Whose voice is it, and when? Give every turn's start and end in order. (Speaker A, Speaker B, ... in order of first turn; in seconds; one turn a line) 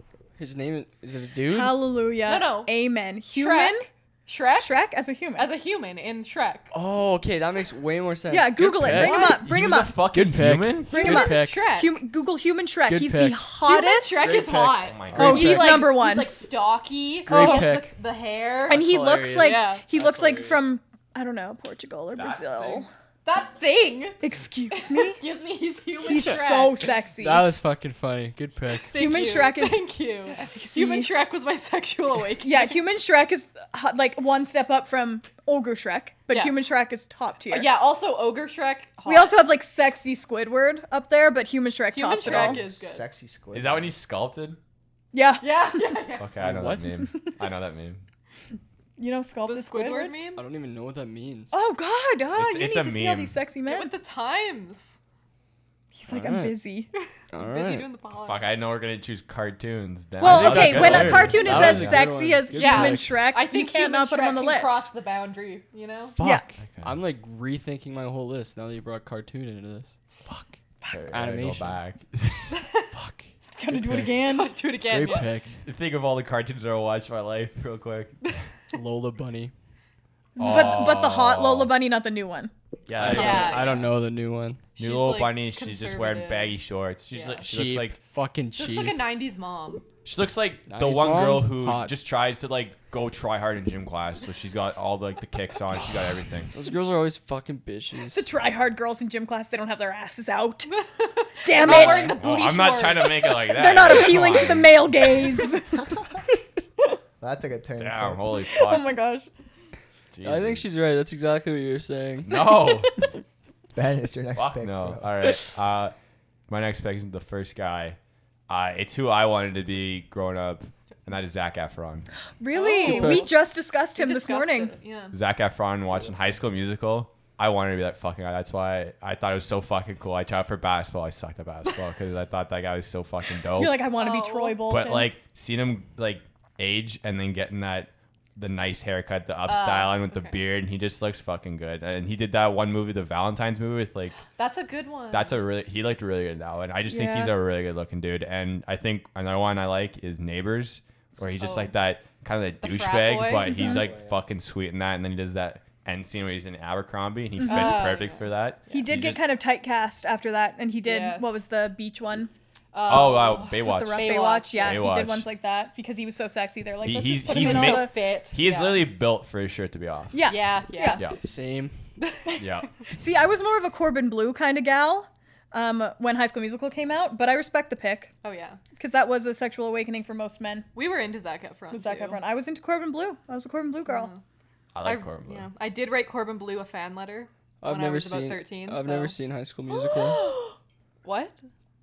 Speaker A: 0.4-1.8
Speaker B: 1.5-3.9
Speaker C: 2.2-2.8
Speaker C: 3.3-6.7
Speaker B: 4.6-5.5
Speaker A: 6.7-9.3
Speaker B: 8.3-10.0
Speaker D: 8.6-11.3
Speaker C: 9.0-9.4
Speaker A: 10.1-11.7
Speaker B: 10.9-14.3
Speaker C: 11.0-11.9
Speaker A: 12.9-13.5
Speaker C: 13.6-18.9
Speaker A: 14.2-15.9
Speaker D: 14.8-15.6
Speaker B: 15.2-16.3
Speaker A: 17.2-17.9
Speaker B: 17.3-17.9
Speaker B: 18.7-22.9
Speaker A: 18.7-20.7
Speaker C: 19.4-19.8
Speaker D: 22.1-22.9
Speaker C: 23.2-26.9
Speaker B: 24.2-25.2
Speaker B: 26.0-27.5
Speaker A: 27.2-28.9
Speaker C: 28.9-32.8
Speaker B: 28.9-31.1
Speaker B: 32.4-37.7
Speaker C: 36.3-36.6
Speaker C: 37.5-39.4
Speaker B: 39.0-42.6
Speaker C: 41.9-43.0
Speaker E: 42.2-44.0
Speaker D: 43.5-44.6
Speaker B: 45.1-46.0
Speaker C: 45.4-46.3
Speaker D: 46.2-48.0
Speaker A: 46.4-46.9
Speaker B: 49.0-50.1
Speaker C: 49.4-50.4
Speaker A: 50.4-51.5
Speaker B: 51.5-53.9
Speaker D: 52.3-53.4
Speaker C: 53.6-54.9
Speaker B: 55.9-56.9
Speaker A: 56.1-56.6
Speaker C: 57.0-58.5
Speaker A: 57.3-57.9
Speaker D: 58.2-62.2
Speaker B: 60.2-64.9
Speaker A: 60.2-63.2
Speaker C: 62.5-66.2
Speaker A: 66.1-70.4
Speaker B: 66.2-66.5
Speaker D: 66.6-67.0
Speaker D: 70.8-72.7
Speaker A: 71.1-71.8
Speaker C: 72.5-72.8
Speaker A: 72.9-74.2
Speaker B: 73.5-74.5
Speaker C: 74.1-75.3
Speaker A: 74.8-75.6
Speaker D: 75.6-78.4
Speaker A: 78.7-79.5
Speaker D: 80.3-81.7
Speaker B: 80.3-82.5
Speaker D: 82.9-83.8
Speaker A: 82.9-84.6
Speaker C: 83.0-83.9
Speaker C: 84.8-86.6
Speaker D: 84.8-88.0
Speaker C: 87.1-87.4
Speaker A: 87.4-89.0
Speaker C: 88.5-89.9
Speaker D: 90.0-96.5
Speaker A: 90.7-92.0
Speaker A: 96.5-98.2
Speaker B: 98.1-100.7
Speaker C: 100.7-103.3
Speaker B: 101.4-102.2
Speaker D: 101.5-104.8
Speaker B: 103.2-106.0
Speaker E: 107.2-108.2
Speaker D: 107.8-108.9
Speaker B: 108.4-109.3
Speaker D: 110.1-110.6
Speaker A: 110.2-112.3
Speaker D: 112.2-113.1
Speaker B: 112.3-112.8
Speaker E: 113.7-115.1
Speaker D: 114.3-115.9
Speaker D: 116.5-118.0
Speaker D: 118.5-122.1
Speaker B: 122.4-124.7
Speaker C: 122.5-123.3
Speaker A: 122.8-123.3
Speaker C: 123.9-125.1
Speaker D: 125.1-133.9
Speaker E: 125.9-126.4
Speaker B: 133.5-135.2
Speaker C: 133.9-134.6
Speaker D: 134.6-144.2
Speaker C: 139.5-140.4
Speaker C: 144.2-145.4
Speaker D: 145.1-159.2
Speaker B: 146.9-147.3
Speaker C: 151.4-151.7
Speaker C: 152.6-153.8
Speaker B: 153.6-153.8
Speaker E: 153.7-154.2
Speaker B: 157.4-158.0
Speaker C: 157.4-158.9
Speaker B: 158.7-162.3
Speaker C: 160.8-161.4
Speaker C: 162.7-164.8
Speaker D: 162.8-165.3
Speaker B: 163.6-168.0
Speaker D: 166.8-170.3
Speaker C: 167.3-168.9
Speaker B: 170.1-171.0
Speaker C: 170.2-171.0
Speaker D: 170.9-171.2
Speaker A: 171.2-171.8
Speaker C: 172.0-172.4
Speaker D: 172.4-172.7
Speaker B: 172.8-178.1
Speaker C: 178.2-178.6
Speaker B: 178.8-180.7
Speaker C: 180.7-182.2
Speaker B: 181.7-184.1
Speaker C: 183.8-184.2
Speaker D: 184.7-185.5
Speaker C: 184.8-189.2
Speaker A: 187.6-190.2
Speaker C: 191.0-191.4